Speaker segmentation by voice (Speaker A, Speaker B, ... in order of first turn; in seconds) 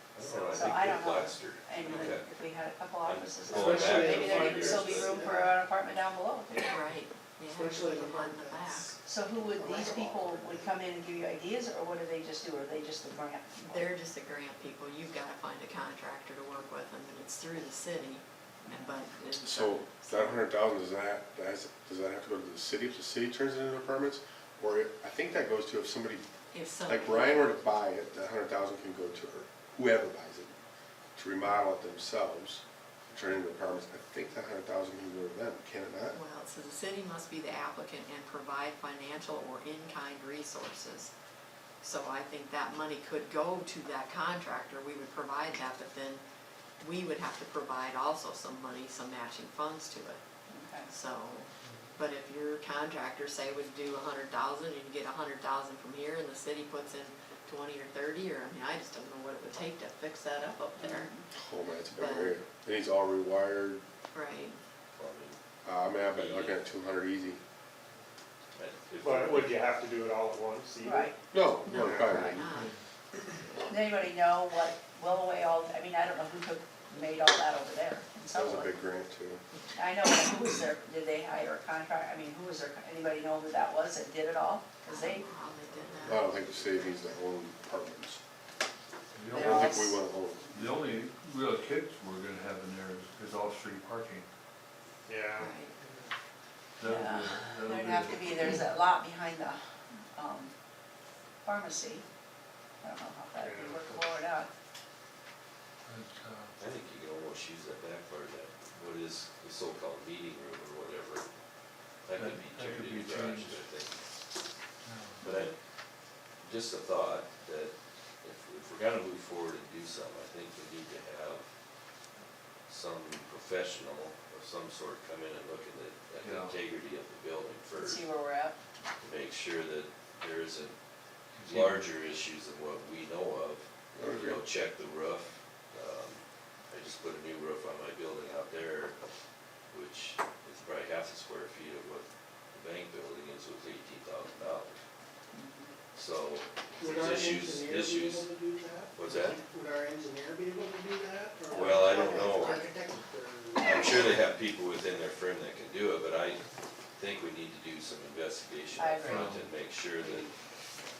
Speaker A: 0.1-2.3, 3.0-5.2, 65.0-65.4, 66.1-66.6, 68.5-69.6, 85.6-87.0, 106.6-111.2, 112.0-114.0, 115.2-115.5, 116.4-121.4, 122.7-128.1, 129.0-130.7, 131.4-139.0, 139.7-144.8, 145.9-148.3, 148.9-149.4, 151.5-152.6, 153.6-156.4, 156.9-160.3
Speaker B: 0.3-6.8, 9.0-13.9, 50.5-50.9, 60.8-61.2, 70.8-71.2, 73.7-78.8, 79.8-85.3, 89.3-89.9, 96.8-99.6, 100.1-100.5, 101.4-102.0, 102.8-104.5, 127.8-128.6, 145.3-145.7, 151.5-152.7, 158.8-159.3
Speaker C: 3.5-5.6, 7.5-10.8, 146.8-154.2, 160.0-160.3
Speaker D: 6.6-8.9, 13.7-20.4, 26.5-27.6, 36.1-41.1, 41.8-46.2, 46.8-50.2, 50.9-61.1, 62.0-62.4, 64.1-64.6, 71.6-72.7, 84.8-86.2, 95.3-95.7
Speaker E: 19.4-26.2, 26.9-30.5, 31.1-36.2, 61.3-63.8, 65.6-67.4, 71.3-72.5, 78.3-79.4, 86.0-88.2, 89.3-90.6, 133.9-134.4
Speaker F: 69.0-71.1, 95.1-95.9, 103.4-103.8
Speaker G: 89.1-89.9, 90.5-94.3, 96.8-98.6, 105.8-106.5, 112.2-113.6, 114.8-115.3, 126.2-126.5, 131.4-131.8, 159.0-159.4